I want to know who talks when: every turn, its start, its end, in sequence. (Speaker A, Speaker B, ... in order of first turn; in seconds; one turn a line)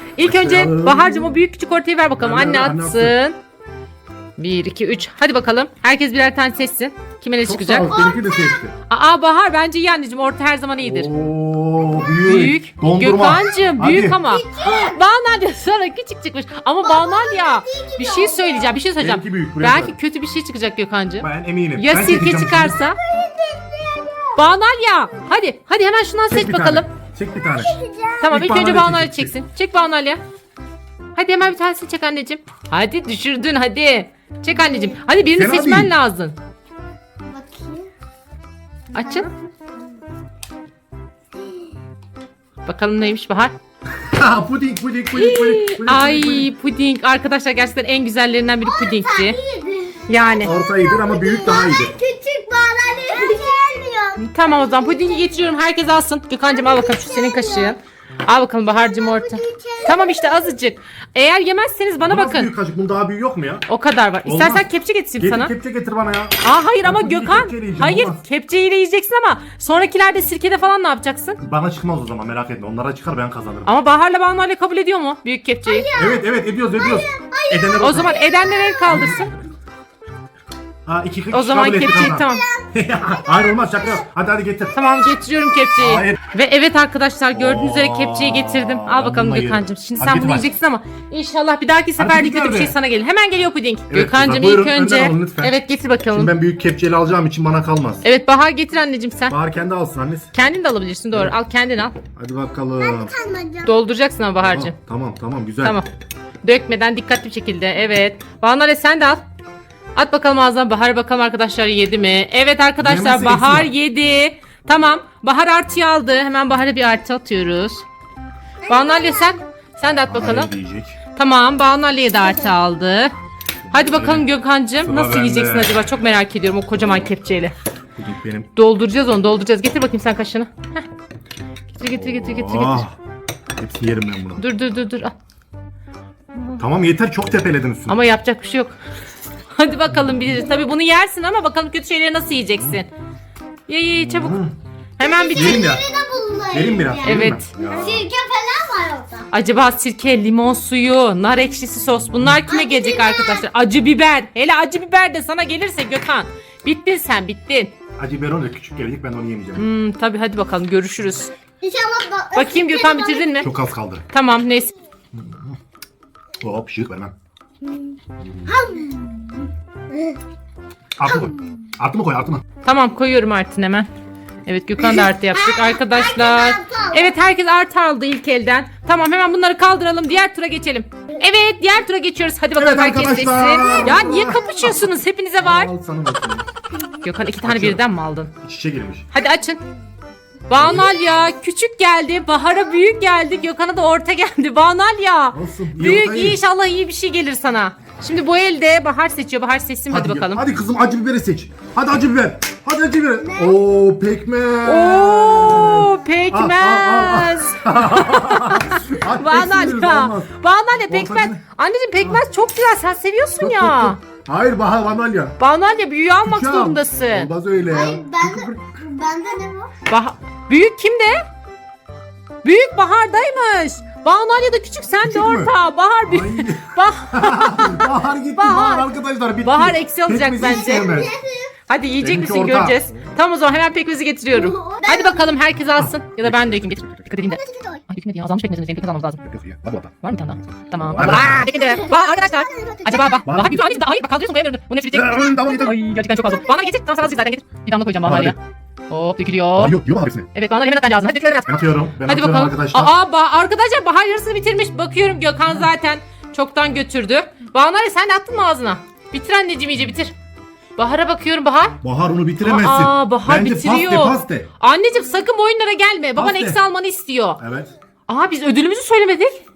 Speaker A: 0.1-3.4
Speaker B: 0.2-1.4
Speaker B: 2.2-3.2
Speaker A: 4.4-8.1
Speaker B: 7.4-8.7
Speaker A: 8.9-11.1
Speaker B: 10.8-14.2
Speaker A: 12.2-23.0
Speaker C: 14.3-15.0
Speaker C: 16.8-18.8
Speaker B: 19.0-19.9
Speaker B: 21.2-22.8
Speaker C: 23.0-24.4
Speaker A: 24.4-26.9
Speaker B: 26.3-29.3
Speaker C: 27.6-28.3
Speaker A: 28.2-30.2
Speaker A: 31.1-36.4
Speaker B: 35.3-35.9
Speaker C: 37.2-37.9
Speaker A: 38.9-39.3
Speaker A: 42.6-43.5
Speaker B: 43.9-46.5
Speaker A: 45.1-49.4
Speaker C: 48.6-55.2
Speaker A: 50.1-50.5
Speaker B: 50.4-51.9
Speaker A: 54.2-62.5
Speaker C: 56.5-57.8
Speaker C: 58.7-60.5
Speaker B: 62.0-63.6
Speaker A: 63.7-65.5
Speaker B: 64.2-64.7
Speaker B: 65.2-68.2
Speaker A: 66.4-71.4
Speaker B: 71.4-73.7
Speaker A: 73.6-75.9
Speaker C: 75.6-79.1
Speaker B: 76.0-78.2
Speaker A: 77.8-79.3
Speaker B: 78.8-79.4
Speaker B: 80.8-84.7
Speaker A: 81.3-82.4
Speaker C: 82.1-82.7
Speaker A: 84.7-96.3
Speaker B: 85.8-86.2
Speaker B: 87.3-90.5
Speaker B: 92.0-92.8
Speaker B: 93.9-95.6
Speaker B: 96.1-98.0
Speaker A: 98.0-99.3
Speaker B: 99.3-100.3
Speaker A: 100.3-102.0
Speaker B: 102.1-103.1
Speaker C: 102.8-103.8
Speaker A: 103.6-104.7
Speaker B: 104.4-105.8
Speaker A: 105.6-105.9
Speaker A: 106.4-109.2
Speaker A: 110.0-117.8
Speaker B: 112.8-113.7
Speaker C: 118.6-119.3
Speaker A: 118.7-120.5
Speaker B: 120.1-121.0
Speaker A: 121.1-123.1
Speaker B: 123.7-124.3
Speaker A: 123.7-127.5
Speaker B: 124.8-125.8
Speaker B: 128.0-128.5
Speaker A: 128.5-130.8
Speaker A: 131.7-132.8
Speaker B: 131.8-132.9
Speaker B: 133.6-134.4
Speaker A: 134.4-135.1
Speaker B: 136.5-138.0
Speaker A: 137.9-138.8
Speaker A: 139.6-142.9
Speaker A: 143.7-144.4
Speaker B: 143.9-144.5
Speaker A: 145.0-145.7
Speaker C: 145.0-149.3
Speaker B: 145.3-145.8
Speaker B: 146.5-148.1
Speaker A: 147.0-147.5
Speaker A: 149.3-157.7
Speaker C: 152.4-153.4
Speaker B: 158.0-159.7
Speaker A: 159.6-161.3
Speaker C: 161.6-163.5
Speaker A: 162.3-163.5
Speaker B: 163.4-164.0
Speaker A: 164.1-164.7
Speaker B: 165.1-165.6
Speaker B: 166.4-167.1
Speaker C: 168.4-170.2
Speaker B: 171.0-172.4
Speaker C: 171.1-171.4
Speaker A: 172.6-173.9
Speaker A: 174.4-185.7
Speaker C: 174.8-177.2
Speaker B: 182.6-184.7
Speaker C: 183.6-184.7
Speaker B: 185.4-186.4
Speaker A: 187.0-188.3
Speaker B: 187.4-189.1
Speaker A: 189.1-189.6
Speaker A: 190.5-200.4
Speaker B: 190.6-190.8
Speaker B: 195.3-196.4
Speaker B: 199.9-210.3
Speaker A: 204.6-214.0
Speaker B: 210.9-211.4
Speaker B: 213.4-215.4
Speaker A: 215.4-217.3
Speaker B: 216.2-218.6
Speaker C: 217.7-219.7
Speaker A: 219.9-221.2
Speaker A: 222.4-228.9
Speaker B: 225.0-225.5
Speaker B: 226.0-231.1
Speaker A: 229.4-230.8
Speaker C: 230.8-231.5
Speaker A: 231.7-239.2
Speaker B: 232.0-233.0
Speaker C: 234.3-235.3
Speaker B: 235.8-237.0
Speaker C: 237.2-237.8
Speaker B: 239.2-239.9
Speaker A: 240.0-248.4
Speaker B: 240.8-241.5
Speaker C: 241.4-243.2
Speaker B: 243.2-243.7
Speaker B: 244.9-245.8
Speaker B: 248.0-248.3
Speaker A: 248.9-249.8
Speaker B: 249.6-250.3
Speaker A: 250.3-260.1
Speaker B: 251.5-252.9
Speaker A: 260.8-261.8
Speaker B: 261.8-264.5
Speaker A: 262.4-267.4
Speaker B: 266.1-266.6
Speaker B: 267.4-267.7
Speaker A: 268.1-269.4